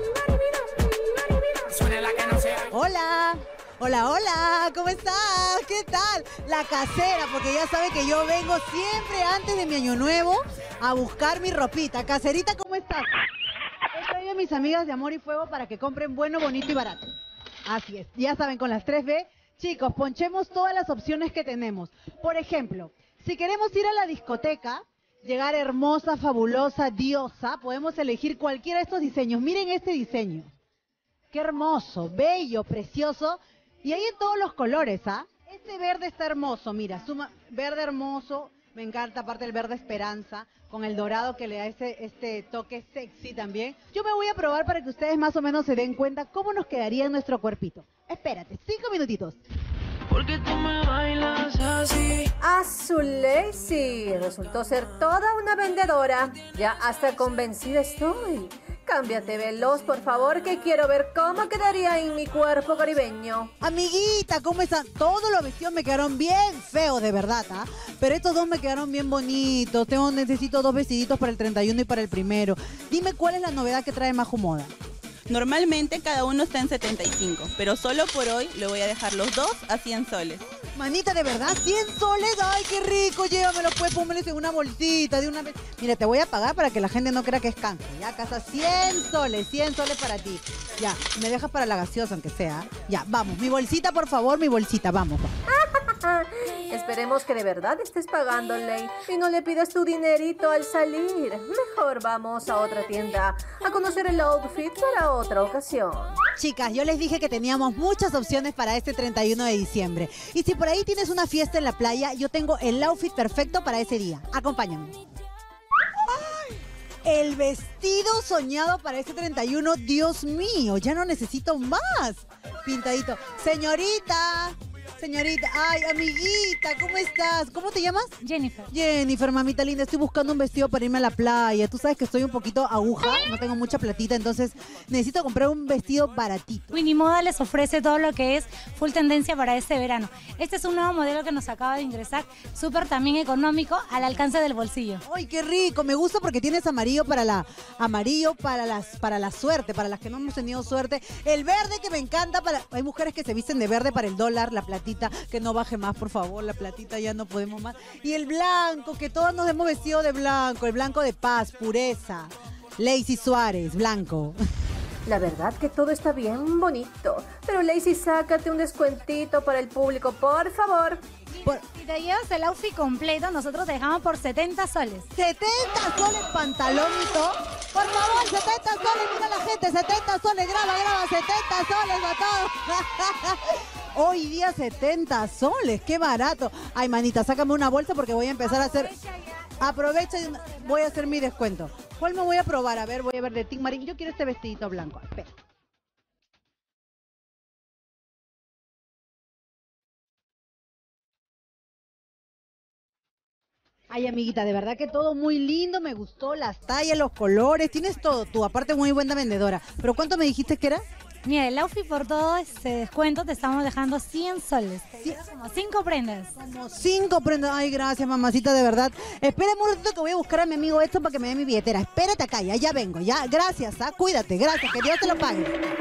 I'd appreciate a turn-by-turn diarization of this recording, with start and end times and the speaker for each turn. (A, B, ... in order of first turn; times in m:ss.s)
0:01.7-0:02.5 A
0:02.5-0:13.1 B
0:13.9-0:17.0 B
0:17.7-0:30.5 B
0:31.3-0:49.4 B
0:50.1-0:52.2 A
0:52.4-1:03.5 C
1:03.6-1:14.7 B
1:15.3-1:20.4 D
1:20.8-1:35.3 B
1:35.5-1:46.2 C
1:46.4-1:55.0 B
1:56.1-2:08.1 B
2:08.2-2:08.7 E
2:08.7-2:16.8 B
2:16.7-2:25.0 E
2:25.1-2:44.4 B
2:45.1-2:51.0 C
2:51.6-2:55.1 E
2:55.2-3:09.0 B
3:09.6-3:15.3 B
3:23.9-3:30.8 B
3:31.2-3:36.3 E
3:36.4-3:45.6 B